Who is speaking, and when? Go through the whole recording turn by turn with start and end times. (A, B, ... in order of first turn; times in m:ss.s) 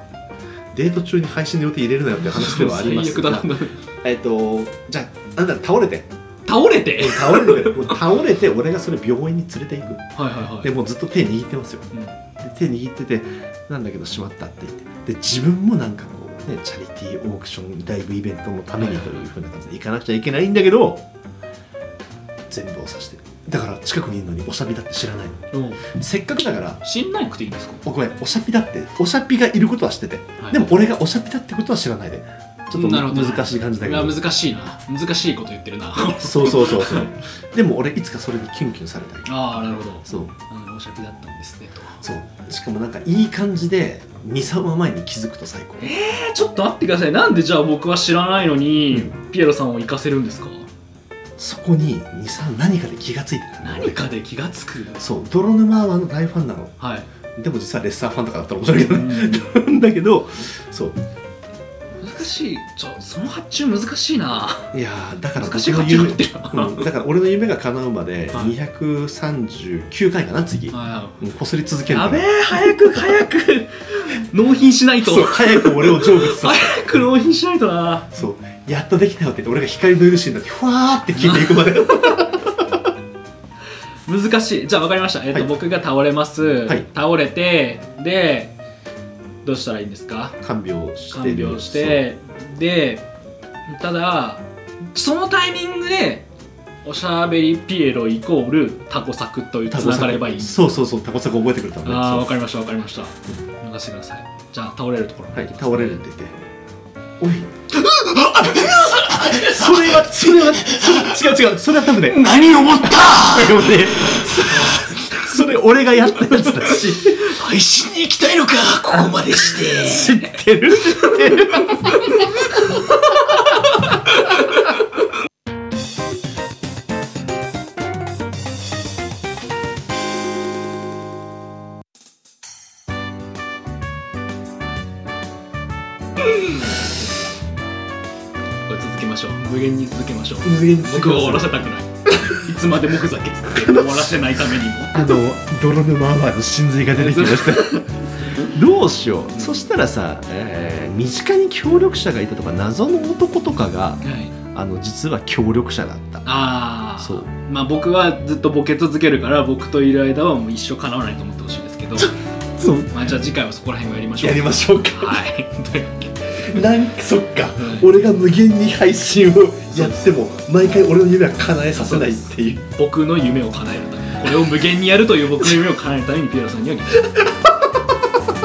0:00.7-0:06.1 A
0:02.2-0:03.8 B
0:06.5-0:08.1 B
0:06.9-0:10.1 A
0:10.2-0:10.7 B
0:10.6-0:11.9 A
0:11.9-0:12.2 B
0:12.4-0:21.0 A
0:18.8-0:19.2 B
0:22.5-0:26.8 A
0:25.5-0:25.8 B
0:26.8-0:27.8 B
0:27.8-0:34.2 A
0:30.4-0:30.7 B
0:32.7-0:37.2 B
0:36.0-0:39.5 A
0:39.3-0:42.0 B
0:40.0-0:40.4 A
0:42.0-0:45.9 A
0:45.8-0:50.7 B
0:51.4-0:54.0 A
0:53.6-0:55.0 B
0:55.0-0:56.7 A
0:56.8-0:57.1 B
0:57.4-1:01.0 A
0:58.8-0:59.5 B
1:02.0-1:04.7 B
1:04.7-1:13.0 A
1:05.4-1:06.9 B
1:10.7-1:11.2 B
1:11.9-1:18.1 B
1:15.0-1:16.8 A
1:18.1-1:22.8 A
1:21.1-1:21.8 B
1:24.1-1:28.6 B
1:29.4-1:30.4 B
1:30.4-1:32.0 A
1:31.1-1:33.1 B
1:33.7-1:36.3 B
1:36.8-1:40.7 B
1:39.7-1:42.3 A
1:41.8-1:46.0 B
1:45.3-1:46.4 A
1:47.2-1:47.6 A
1:47.7-1:51.4 B
1:49.3-1:52.3 A
1:51.9-1:55.4 B
1:52.8-1:57.3 A
1:56.4-2:00.3 B
1:58.9-2:02.0 A
2:00.9-2:02.3 B
2:03.2-2:03.7 B
2:16.2-2:17.6 B
2:18.7-2:25.2 B
2:20.4-2:21.6 A
2:23.6-2:24.4 A
2:24.9-2:36.3 A
2:26.9-2:28.5 B
2:29.3-2:29.6 B
2:34.0-2:34.4 B
2:36.2-2:42.2 B
2:37.0-2:37.3 A
2:42.0-2:43.1 A
2:42.9-2:46.6 B
2:44.2-2:45.2 A
2:46.3-2:52.6 A
2:47.6-2:47.9 B
2:49.7-2:50.2 B
2:51.8-2:57.4 B